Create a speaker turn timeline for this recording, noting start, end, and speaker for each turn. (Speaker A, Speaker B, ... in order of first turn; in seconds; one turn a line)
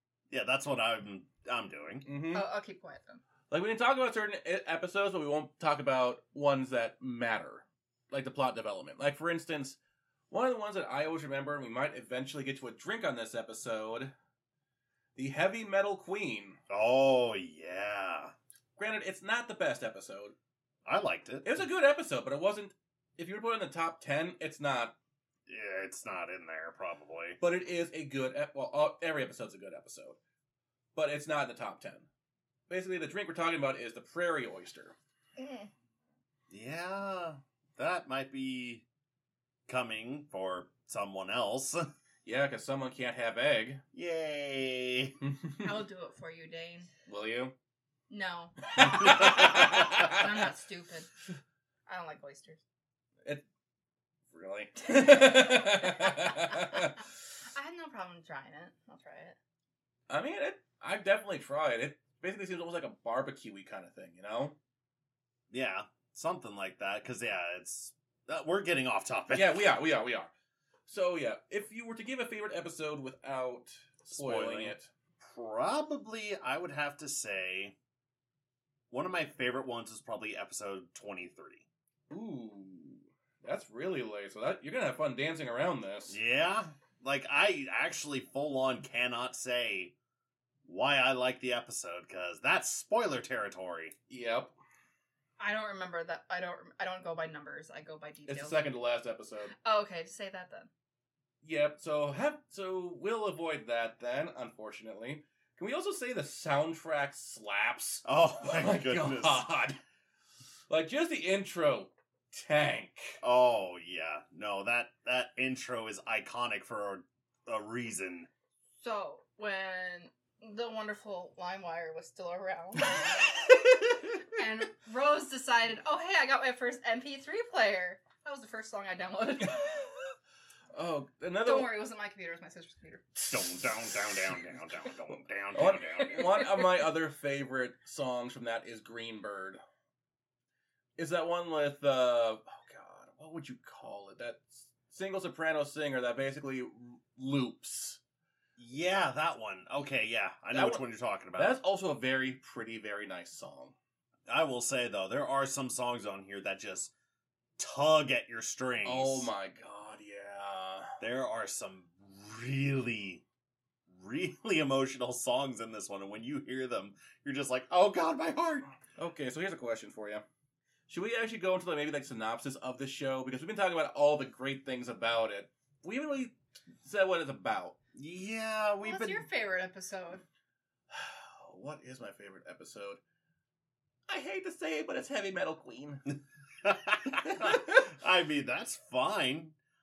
Speaker A: 0.3-2.0
Speaker B: 2.0-2.4
Speaker C: 2.3-3.2
Speaker B: 3.5-9.8
Speaker B: 10.3-14.1
Speaker B: 15.2-16.6
Speaker A: 16.7-18.3
Speaker B: 18.8-20.3
Speaker A: 20.8-21.6
Speaker B: 21.4-24.9
Speaker A: 25.5-27.4
Speaker B: 27.4-30.2
Speaker B: 30.9-32.1
Speaker B: 32.7-34.9
Speaker C: 35.4-35.7
Speaker A: 36.5-38.8
Speaker A: 39.7-41.9
Speaker B: 42.2-43.8
Speaker A: 43.9-45.1
Speaker B: 45.2-45.7
Speaker C: 45.6-46.9
Speaker B: 47.1-47.5
Speaker C: 48.1-51.1
Speaker B: 48.8-50.2
Speaker C: 51.9-52.6
Speaker B: 54.3-57.0
Speaker C: 54.9-56.9
Speaker C: 57.5-59.4
Speaker B: 60.1-64.5
Speaker A: 65.5-69.6
Speaker B: 69.3-70.3
Speaker B: 70.9-74.9
Speaker A: 74.1-77.8
Speaker A: 78.9-81.7
Speaker B: 82.1-86.2
Speaker A: 86.1-89.9
Speaker A: 90.6-93.9
Speaker B: 94.1-94.5
Speaker C: 95.4-98.6
Speaker B: 98.3-99.5
Speaker C: 99.6-100.7
Speaker B: 101.4-109.8
Speaker A: 108.0-109.7
Speaker B: 110.7-113.2
Speaker A: 113.2-118.3
Speaker C: 118.8-123.1
Speaker C: 124.2-129.9
Speaker B: 130.7-131.7
Speaker C: 131.4-133.0
Speaker B: 133.2-133.4
Speaker A: 133.3-136.3
Speaker B: 135.5-139.6
Speaker C: 136.1-136.8
Speaker B: 141.0-148.0
Speaker A: 148.6-151.6
Speaker B: 150.5-150.8
Speaker B: 151.3-153.7
Speaker A: 154.3-156.9
Speaker A: 157.6-159.3
Speaker B: 158.8-160.9
Speaker A: 161.0-163.2
Speaker A: 163.9-168.7
Speaker B: 169.0-170.2
Speaker B: 170.9-177.8
Speaker A: 177.9-179.2
Speaker C: 178.8-180.2
Speaker B: 180.9-183.0
Speaker B: 184.1-186.1
Speaker A: 186.6-189.5
Speaker B: 187.2-187.8